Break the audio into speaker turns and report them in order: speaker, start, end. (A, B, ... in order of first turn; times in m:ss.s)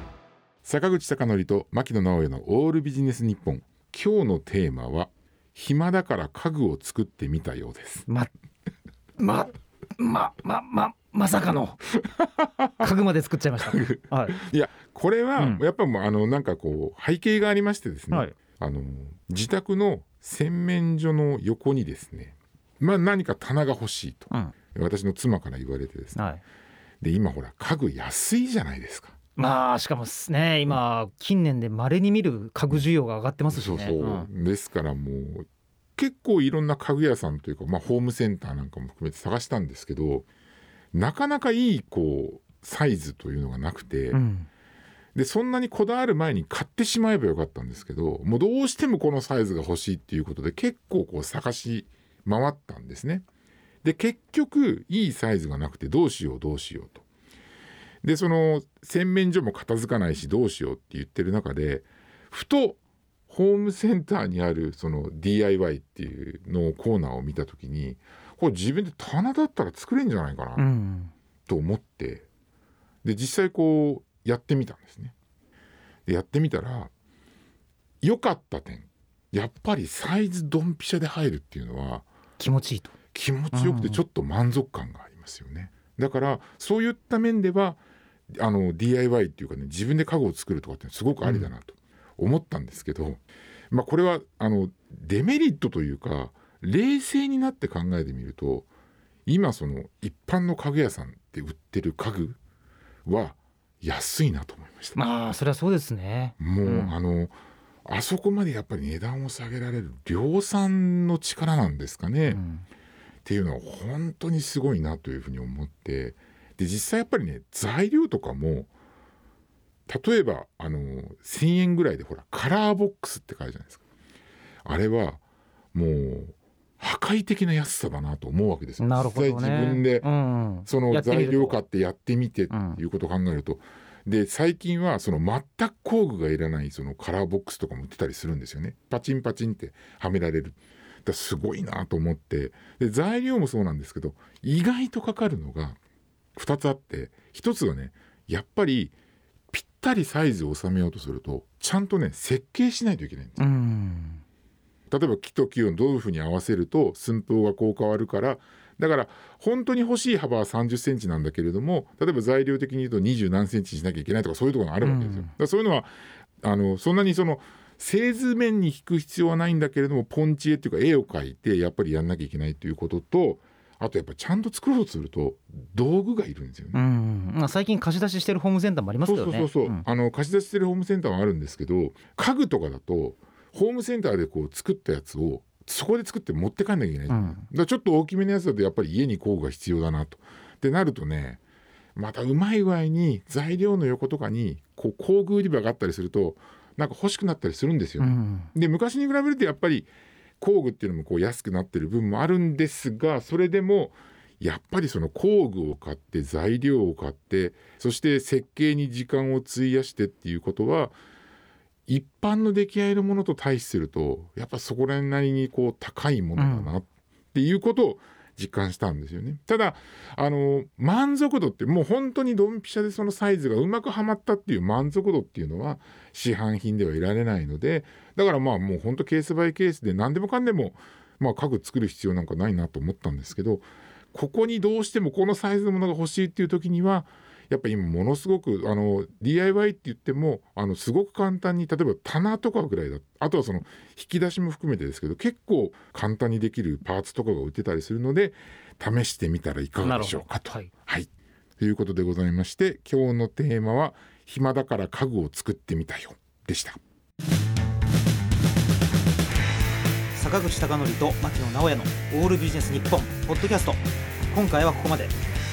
0:00.6-0:08.1 A
0:09.2-0:11.8 B
0:12.4-0:12.6 A
0:12.8-0:14.4 B
0:13.6-0:26.2 A
0:15.4-0:15.6 B
0:26.1-0:26.4 B
0:27.0-0:29.2 A
0:29.4-0:34.3 B
0:33.5-0:40.2 A
0:40.9-0:44.2 A
0:44.1-0:44.5 B
0:45.1-0:53.2 A
0:53.8-0:57.0 A
0:58.0-1:10.7 A
1:10.6-1:11.1 B
1:11.5-1:12.3 A
1:13.0-1:15.1 A
1:16.0-1:16.9 A
1:18.0-1:22.1 A
1:22.4-1:22.9 B
1:23.1-1:27.8 A
1:23.5-1:24.0 B
1:28.3-1:38.7 A
1:31.2-1:31.5 B
1:39.2-1:42.4 A
1:43.0-1:45.0 A
1:45.0-1:46.9 B
1:46.4-1:52.4 A
1:52.3-1:52.6 B
1:53.2-1:58.7 A
1:59.9-2:03.8 A
2:04.6-2:05.2 A
2:05.7-2:10.1 A
2:08.8-2:11.6 B
2:10.6-2:25.8 A
2:12.5-2:12.8 B
2:26.3-2:28.9 A
2:29.5-2:33.5 A
2:33.4-2:34.2 B
2:34.9-2:56.8 A
2:44.8-2:45.3 B
2:56.7-2:59.8 B
2:59.0-3:11.4 A
3:07.1-3:07.4 B
3:12.0-3:19.9 A
3:18.0-3:18.5 B
3:20.4-3:31.0 A
3:31.9-4:16.8 A
3:36.4-3:36.7 B
4:09.8-4:10.7 B
4:20.1-4:25.2 B